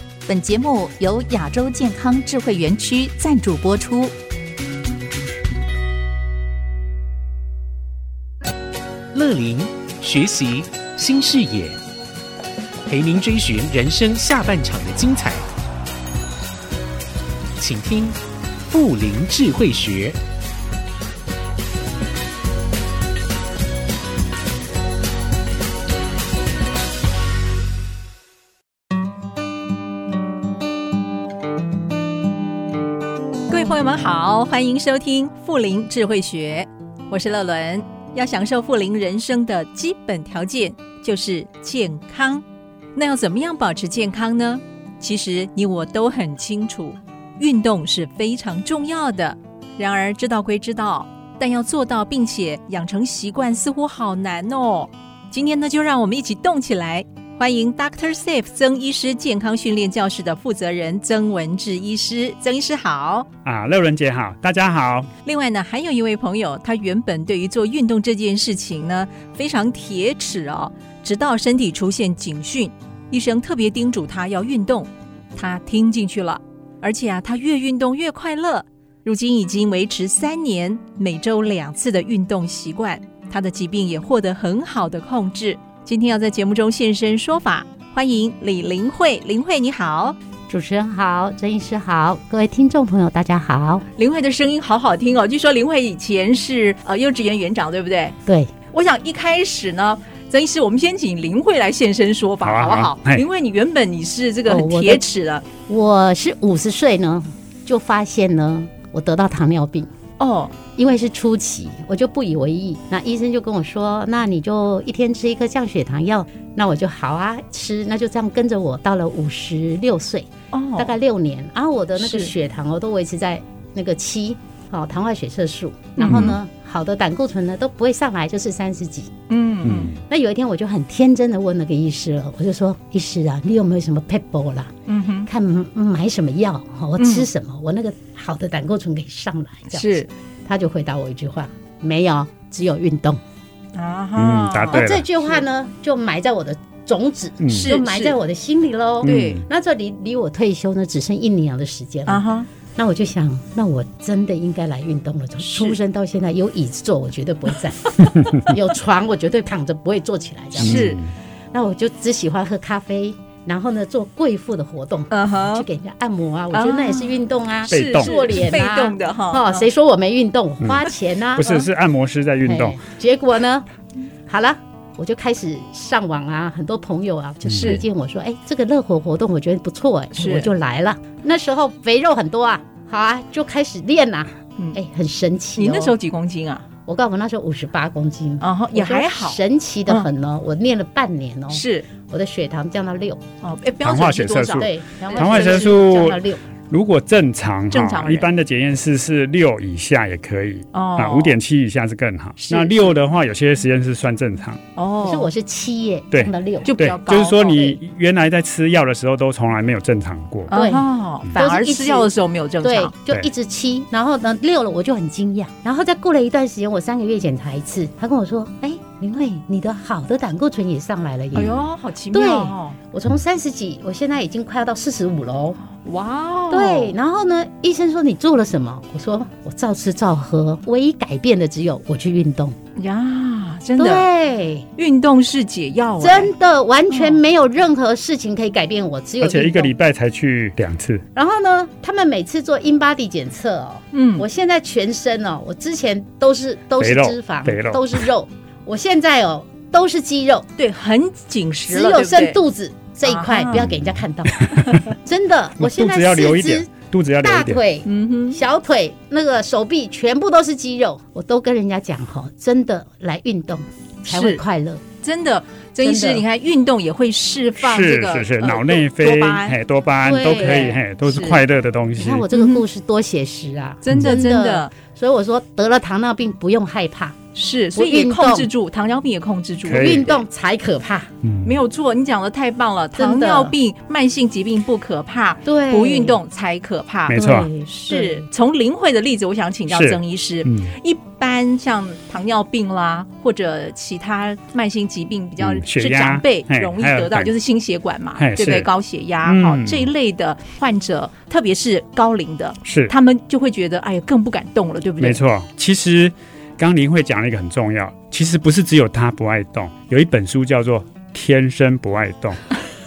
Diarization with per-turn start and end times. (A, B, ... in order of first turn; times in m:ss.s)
0:00.2-0:04.1 A
0:09.1-0:11.8 B
0:12.9-0:15.5 B
0:17.6-0:18.2 B
0:18.7-0:20.2 B
0:33.5-0:42.4 C
0:42.9-1:03.3 C
1:03.4-1:05.1 D
1:05.2-1:30.2 C
1:30.5-1:33.8 E
1:34.0-1:38.2 C
1:38.7-1:45.4 C
1:42.4-1:43.2 D
1:44.5-1:45.0 E
1:45.6-1:49.9 E
1:50.2-1:50.5 C
1:50.8-2:09.1 E
2:00.5-2:00.9 C
2:02.0-2:02.3 C
2:06.0-2:06.4 C
2:06.1-2:06.3 D
2:09.3-2:09.9 C
2:09.6-2:10.0 D
2:10.0-2:14.7 E
2:14.9-2:15.3 C
2:15.3-2:23.2 E
2:17.0-2:17.3 C
2:19.7-2:20.1 C
2:23.7-2:25.4 C
2:24.2-2:25.0 D
2:24.7-2:32.2 E
2:27.4-2:27.7 D
2:27.5-2:28.2 C
2:29.0-2:29.4 C
2:29.0-2:29.4 D
2:32.1-2:32.5 C
2:32.8-2:40.9 E
2:35.4-2:35.8 C
2:40.6-2:41.1 D
2:40.6-2:41.0 C
2:41.5-2:51.5 E
2:45.1-2:45.6 C
2:46.5-2:49.6 C
2:47.7-2:48.1 D
2:50.6-2:52.8 D
2:52.4-2:53.6 E
2:54.3-3:05.9 E
2:57.4-2:57.8 D
2:57.5-2:57.8 C
3:00.1-3:00.5 C
3:05.6-3:06.6 C
3:06.8-3:13.2 E
3:08.4-3:10.1 C
3:11.5-3:11.8 C
3:13.4-3:16.0 C
3:13.8-3:24.6 D
3:14.5-3:16.4 E
3:17.7-3:18.3 C
3:20.7-3:21.4 C
3:22.4-3:22.9 E
3:24.8-3:25.3 C
3:25.0-3:26.8 E
3:26.1-3:30.5 D
3:26.6-3:27.6 C
3:27.4-3:27.7 E
3:30.5-3:32.9 C
3:30.5-3:32.1 E
3:32.6-3:41.6 E
3:41.3-3:41.6 D
3:41.3-3:42.8 C
3:42.1-3:45.6 E
3:45.7-3:46.9 C
3:46.5-3:52.6 E
3:52.8-3:54.0 C
3:53.8-3:54.6 E
3:54.8-3:56.3 C
3:56.0-3:59.7 E
3:56.9-3:57.2 C
3:59.2-4:01.0 D
4:01.1-4:10.4 E
4:03.9-4:04.2 C
4:06.8-4:08.0 D
4:10.6-4:12.4 C
4:11.7-4:16.7 E
4:13.0-4:13.6 C
4:13.6-4:14.8 D
4:15.6-4:17.6 D
4:17.2-4:24.8 E
4:17.8-4:18.4 C
4:24.1-4:24.4 C
4:25.0-4:29.6 C
4:25.8-4:26.2 E
4:27.6-4:32.3 D
4:30.0-4:30.8 E
4:30.2-4:31.4 C
4:32.0-4:37.2 E
4:32.3-4:32.6 C
4:33.8-4:34.7 C
4:33.9-4:34.1 D
4:37.3-4:40.2 C
4:37.7-4:38.5 E
4:39.6-4:40.1 D
4:39.7-4:41.1 E
4:41.2-4:41.6 D
4:41.4-5:05.2 C
4:43.0-4:43.5 E
4:45.4-4:46.2 E
4:47.1-4:47.5 D
4:47.1-4:48.2 E
4:49.7-4:50.7 D
4:55.4-4:57.3 D
4:58.2-4:58.7 D
4:59.2-4:59.9 D
5:02.6-5:02.9 D
5:05.0-5:12.5 D